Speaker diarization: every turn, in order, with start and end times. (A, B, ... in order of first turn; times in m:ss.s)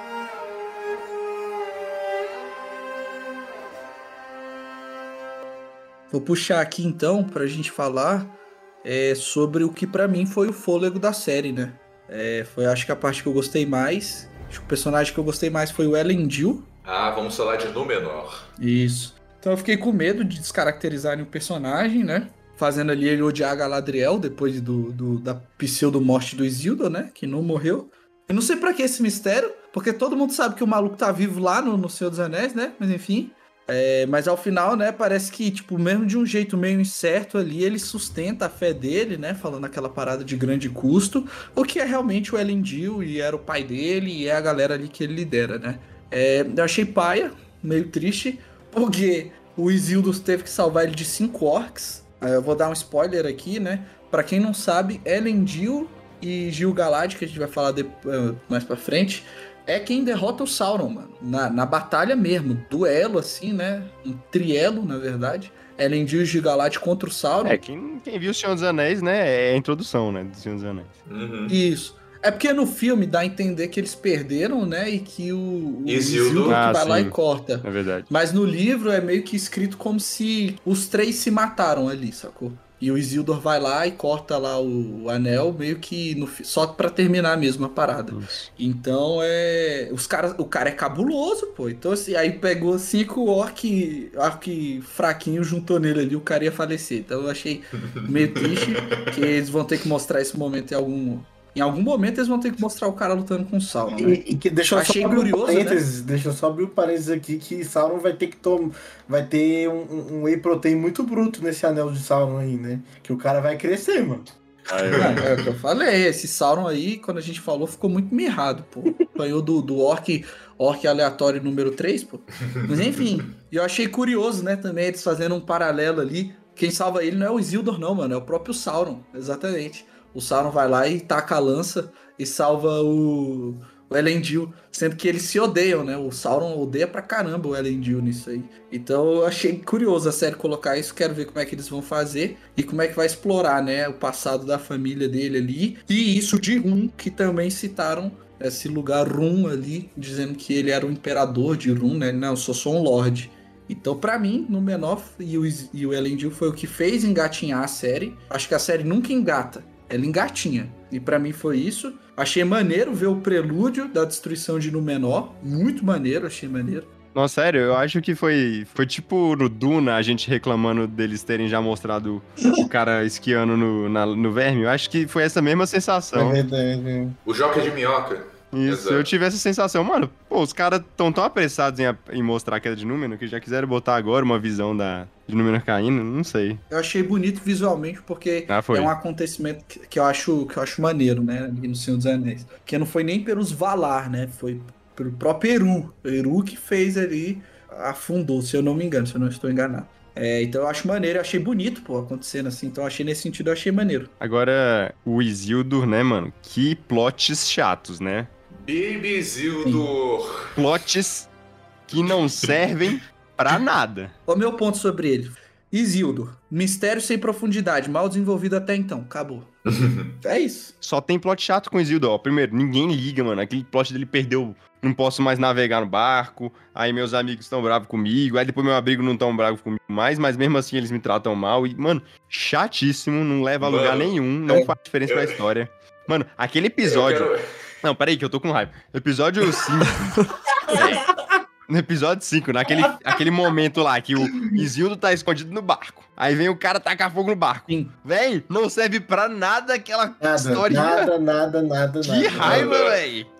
0:06.1-0:16.6 A
0:16.8-0:18.5 B
0:18.6-1:07.6 A
1:07.4-1:10.9 C
1:11.1-1:11.6 B
1:11.5-1:44.2 A
1:15.8-1:16.6 B
1:16.4-1:18.1 C
1:28.1-1:28.5 C
1:38.4-1:38.9 B
1:44.0-1:54.3 D
1:44.7-1:45.8 A
1:54.7-1:55.3 C
1:54.7-1:55.3 B
1:55.0-2:46.9 A
2:47.1-2:56.4 C
2:56.1-2:57.2 D
2:57.2-2:59.1 B
2:58.5-3:06.6 C
3:06.7-3:24.1 A
3:08.5-3:08.9 C
3:24.2-3:28.3 C
3:28.5-3:30.5 B
3:30.5-3:31.3 C
3:31.9-3:34.1 C
3:32.1-3:32.5 B
3:34.3-3:39.5 A
3:39.7-3:40.1 B
3:40.2-3:40.7 A
3:40.8-3:57.3 C
3:53.6-3:55.4 B
3:56.8-3:57.4 B
3:57.8-4:01.1 C
4:01.7-4:11.1 C
4:10.2-4:12.7 D
4:12.0-4:13.3 C
4:12.4-4:13.0 B